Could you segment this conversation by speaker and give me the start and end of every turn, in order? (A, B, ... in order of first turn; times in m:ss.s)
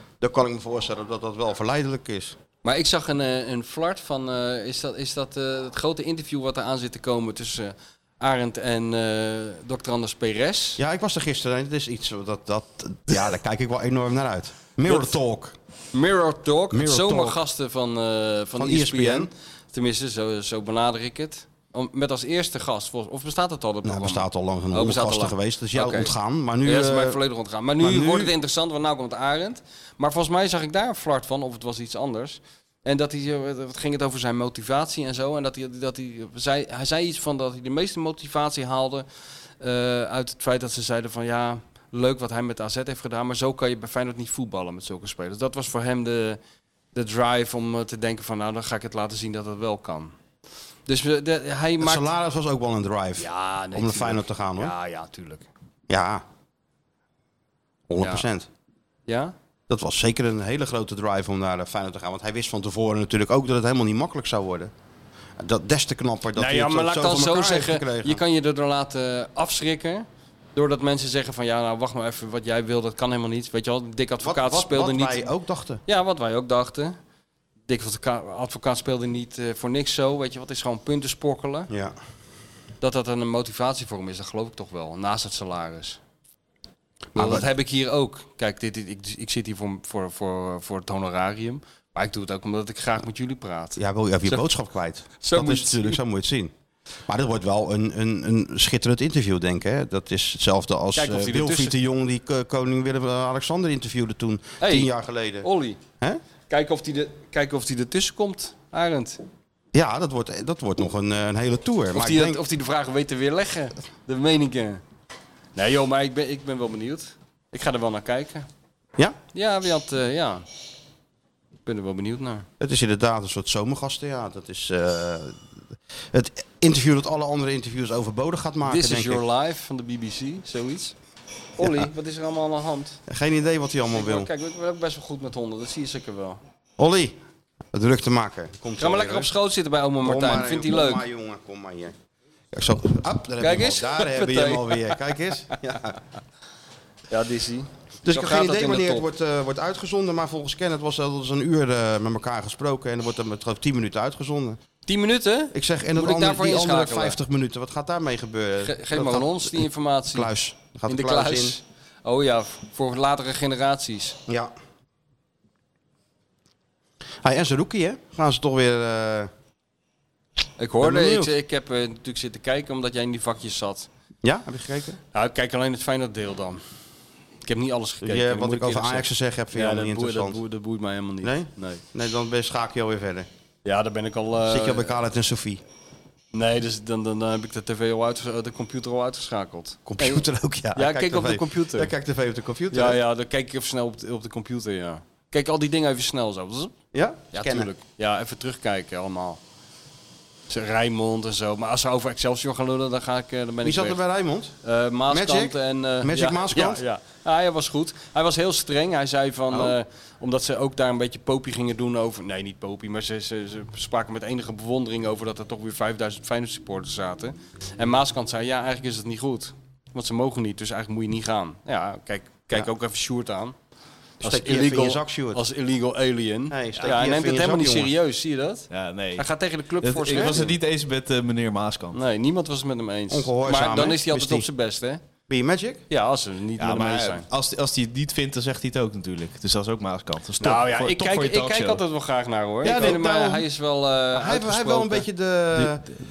0:00.2-0:02.4 A
0:02.6-0:10.8 B
0:10.8-0:15.5 A
0:14.9-0:15.2 B
0:15.9-0:26.1 B
0:16.7-0:17.4 A
0:18.6-0:19.3 A
0:23.8-0:27.2 A
0:26.6-0:39.0 B
0:27.8-0:28.3 A
0:39.6-0:46.4 B
0:46.9-0:50.1 B
0:50.9-0:52.0 B
0:51.8-0:54.7 A
0:53.2-0:55.5 B
0:55.9-0:56.2 A
0:57.9-0:58.5 A
0:58.0-0:58.3 B
0:59.1-0:59.3 B
0:59.7-1:04.7 A
1:05.4-1:08.2 A
1:06.4-1:15.2 B
1:14.2-1:15.8 A
1:15.9-1:17.0 B
1:17.7-1:21.7 B
1:21.7-1:21.9 A
1:22.8-1:26.0 B
1:27.1-1:34.4 B
1:27.2-1:27.5 A
1:33.8-1:36.5 A
1:35.2-1:36.0 B
1:37.1-1:45.5 A
1:41.0-1:41.7 B
1:44.6-1:45.8 B
1:46.5-1:49.2 B
1:49.7-1:52.4 A
1:51.9-1:54.8 B
1:55.6-1:58.5 B
1:59.3-2:00.4 B
2:01.6-2:02.5 B
2:02.6-2:05.4 A
2:06.1-2:09.2 A
2:08.6-2:11.0 B
2:11.6-2:13.0 B
2:11.6-2:11.9 A
2:13.1-2:14.3 A
2:13.9-2:16.4 B
2:16.8-2:17.2 A
2:17.7-2:19.3 A
2:18.8-2:21.0 B
2:20.0-2:21.9 A
2:22.5-2:26.0 A
2:23.4-2:25.0 B
2:27.1-2:29.1 B
2:28.0-2:34.6 A
2:34.9-2:37.2 B
2:35.5-2:41.6 A
2:38.6-2:40.3 B
2:40.9-2:44.2 B
2:44.3-2:44.5 A
2:47.2-2:49.3 A
2:50.6-2:53.9 B
2:50.8-2:51.3 A
2:54.2-2:55.0 A
2:55.1-2:56.6 B
2:57.4-3:01.8 B
2:58.0-3:00.4 A
3:01.2-3:03.3 A
3:03.6-3:05.0 B
3:04.4-3:05.6 A
3:06.3-3:10.2 B
3:09.8-3:13.0 A
3:10.7-3:11.9 B
3:12.7-3:16.7 B
3:16.9-3:17.7 A
3:17.3-3:19.4 B
3:20.5-3:24.0 B
3:23.6-3:24.5 A
3:24.6-3:43.5 B
3:25.1-3:26.8 A
3:29.5-3:29.8 A
3:44.2-3:50.5 B
3:44.2-3:45.4 A
3:46.5-3:47.9 A
3:48.7-3:49.3 C
3:49.8-3:52.0 C
3:50.1-3:50.4 A
3:51.9-3:55.0 B
3:53.1-3:54.5 A
3:55.3-3:55.8 A
3:55.9-3:57.2 B
3:56.6-4:01.8 C
4:00.4-4:05.1 B
4:02.6-4:03.4 A
4:02.7-4:03.2 C
4:04.1-4:05.9 A
4:05.5-4:06.0 C